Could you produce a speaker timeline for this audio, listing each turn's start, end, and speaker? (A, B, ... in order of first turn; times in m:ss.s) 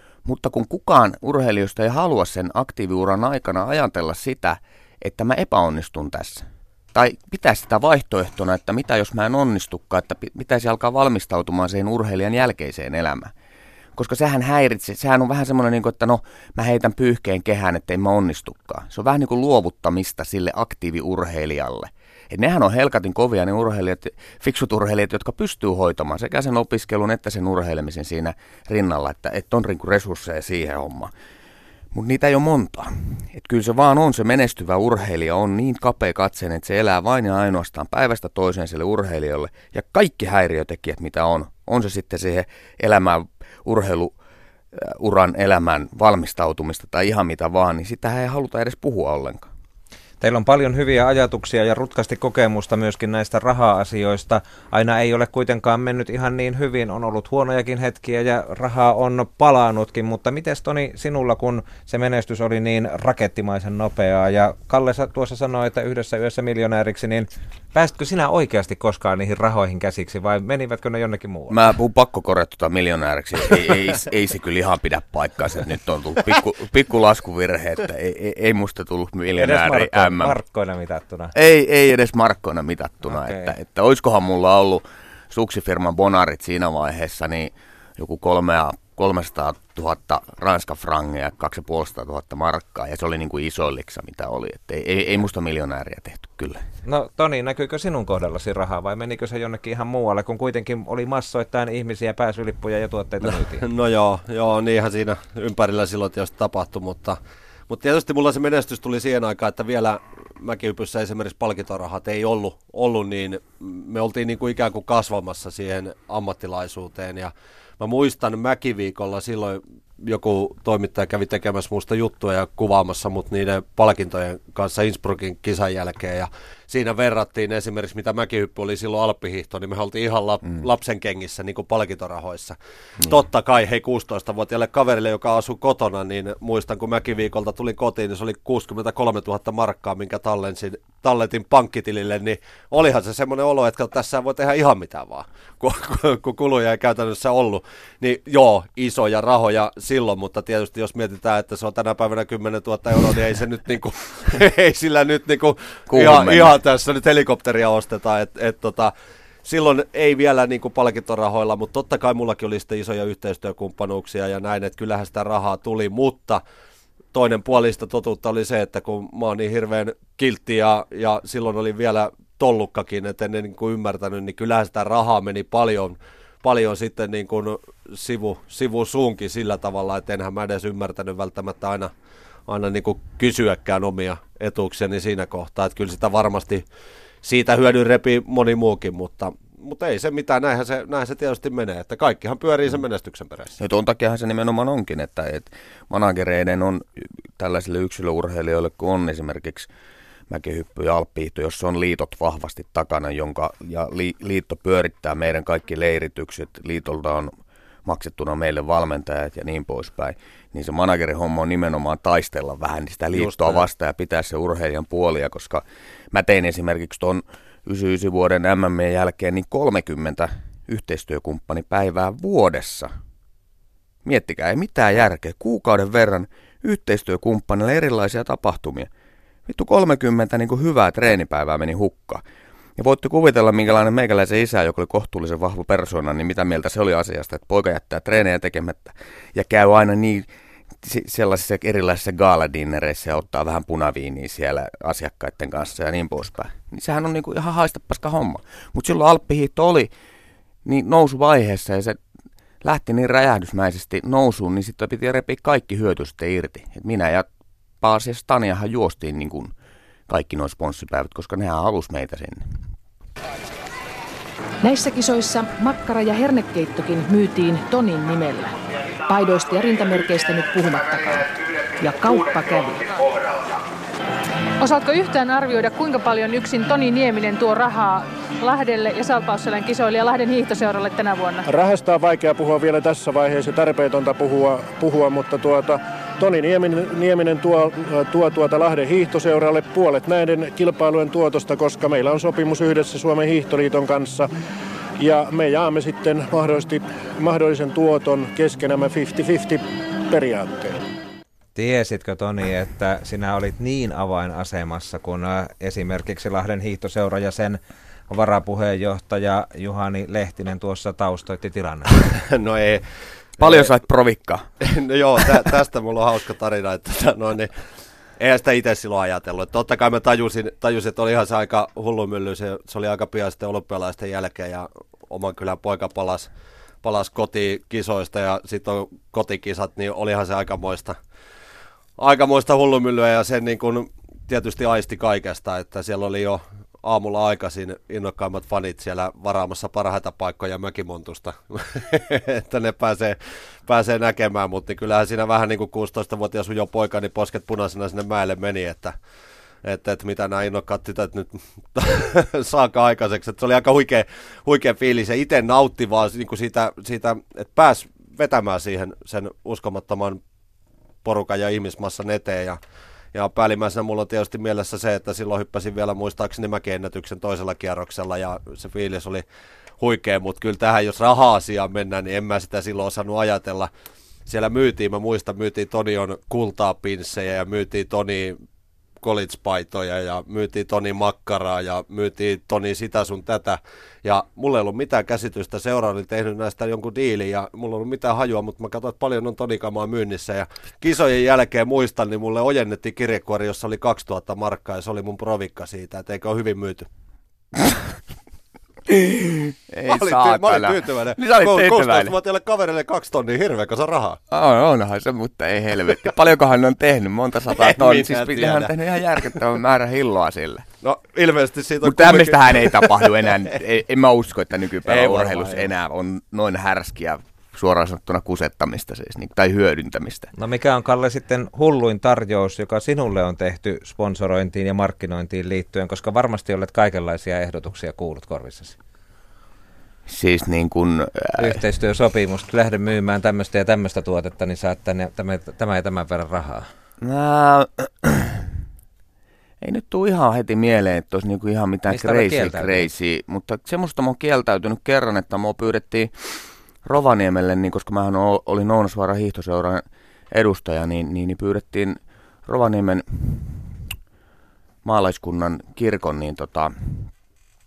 0:00.2-0:13.3 A
0:14.0-0:31.1 A
0:31.9-0:44.1 A
0:44.7-0:49.5 A
0:50.2-1:11.6 B
1:11.5-1:20.4 A
1:19.4-1:21.3 B
1:21.3-1:36.6 A
1:23.0-1:23.5 B
1:36.8-1:43.6 B
1:43.6-1:47.2 C
1:47.7-2:38.9 C
2:35.9-2:36.5 A
2:39.4-2:46.4 C
2:47.1-3:01.9 C
3:02.5-3:06.6 C
3:07.2-3:13.5 C
3:13.6-3:19.7 A
3:20.3-3:27.3 A
3:27.8-3:42.9 A
3:33.1-3:33.6 C
3:44.0-3:48.9 A
3:49.4-3:52.2 A
3:52.8-4:00.3 A
4:00.8-4:09.9 A
4:10.6-4:12.0 A
4:12.6-4:17.3 A
4:17.8-4:19.5 A
4:20.1-4:22.6 A
4:24.6-4:28.5 D
4:29.0-4:32.9 D
4:34.6-4:41.4 E
4:41.4-4:54.3 F
4:55.0-5:00.8 F
5:01.5-5:11.9 B
5:12.1-5:12.8 C
5:13.4-5:14.4 A
5:13.4-5:13.7 C
5:14.6-5:17.5 C
5:18.2-5:26.3 C
5:26.8-5:31.0 C
5:32.0-5:48.9 C
5:49.6-6:00.2 C
6:01.0-6:02.6 C
6:03.1-6:09.2 C
6:09.8-6:13.7 C
6:14.3-6:18.4 C
6:19.0-6:36.9 C
6:37.6-6:37.9 A
6:38.9-6:42.1 A
6:39.9-6:44.2 C
6:44.3-6:50.6 A
6:47.5-6:48.7 C
6:50.8-6:53.3 C
6:51.8-7:00.3 A
6:54.9-6:55.7 C
7:00.3-7:08.8 B
7:10.1-7:11.6 A
7:11.4-7:16.7 B
7:17.0-7:18.5 A
7:19.6-7:33.7 A
7:21.9-7:22.9 B
7:34.8-7:37.1 A